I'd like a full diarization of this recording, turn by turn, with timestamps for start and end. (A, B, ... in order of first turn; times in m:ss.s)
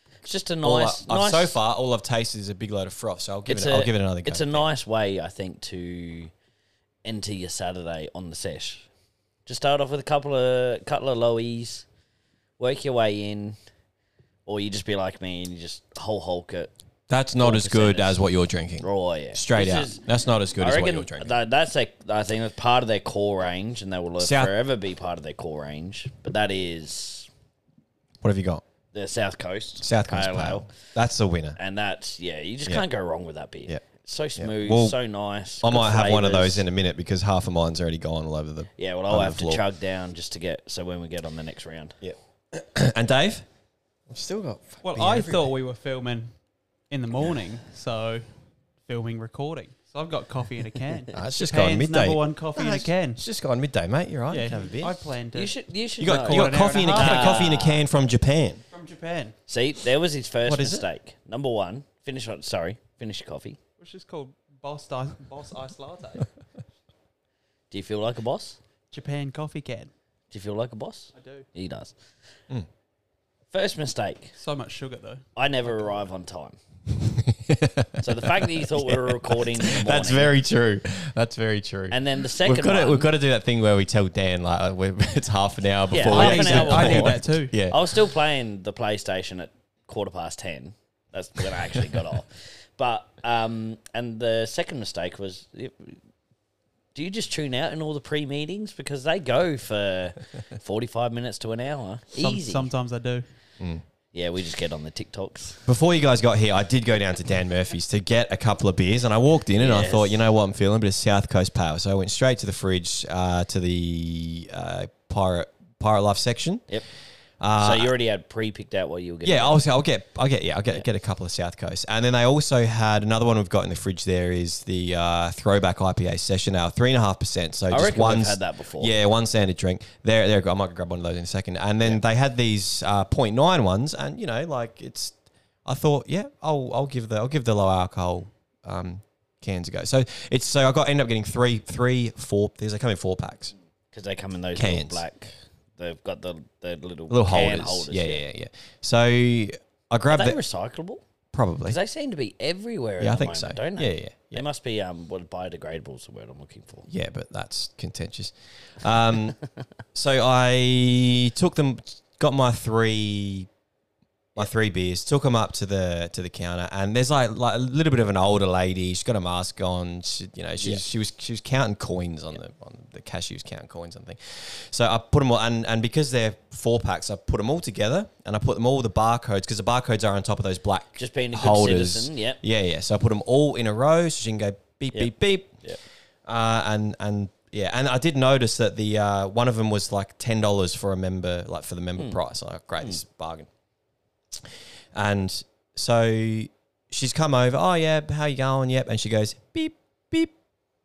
0:00.2-0:01.6 A
0:00.6-0:04.7 B
0:03.5-0:06.3 A
0:07.0-0:08.9 A
0:09.4-0:11.8 A
0:12.6-0:13.6 A
0:14.4-0:16.7 A
0:17.1-0:21.3 B
0:17.4-0:18.2 A
0:18.8-0:20.0 A
0:20.6-0:27.3 A
0:24.2-0:24.5 B
0:28.2-0:28.6 B
0:28.9-0:30.7 A
0:29.8-0:31.6 B
0:31.6-0:36.6 A
0:34.4-0:35.0 B
0:35.6-0:39.6 B
0:38.8-0:42.0 A
0:42.0-0:43.4 B
0:44.1-0:45.5 B
0:44.8-0:46.3 C
0:46.9-0:48.3 C
0:48.8-0:53.2 C
0:51.2-0:54.9 B
0:54.3-0:57.4 C
0:55.3-0:57.8 A
0:56.0-0:58.6 B
0:58.7-0:59.3 C
0:59.5-1:03.6 A
1:00.4-1:00.8 B
1:03.8-1:06.3 C
1:07.7-1:08.6 A
1:08.9-1:09.9 C
1:10.3-1:11.9 A
1:11.1-1:11.4 C
1:13.5-1:14.3 A
1:14.4-1:15.2 C
1:15.4-1:16.6 A
1:16.9-1:28.1 B
1:18.0-1:20.3 A
1:21.9-1:23.1 A
1:25.9-1:36.0 A
1:26.0-1:27.5 C
1:31.7-1:32.1 B
1:36.9-1:42.7 A
1:42.2-1:43.2 C
1:44.1-1:45.6 A
1:45.6-1:56.6 B
1:49.6-1:50.2 A
1:57.4-1:57.9 B
1:57.6-1:59.5 A
1:59.2-2:23.5 B
2:07.7-2:08.9 A
2:23.9-2:28.2 A
2:24.5-2:25.0 B
2:27.1-2:30.4 B
2:30.1-2:31.0 A
2:31.3-2:31.8 B
2:31.6-2:36.9 A
2:33.0-2:34.4 B
2:36.9-2:39.4 B
2:39.9-2:43.5 B
2:44.4-3:05.6 B
3:01.0-3:02.4 A
3:06.2-3:13.5 B
3:14.3-3:20.3 B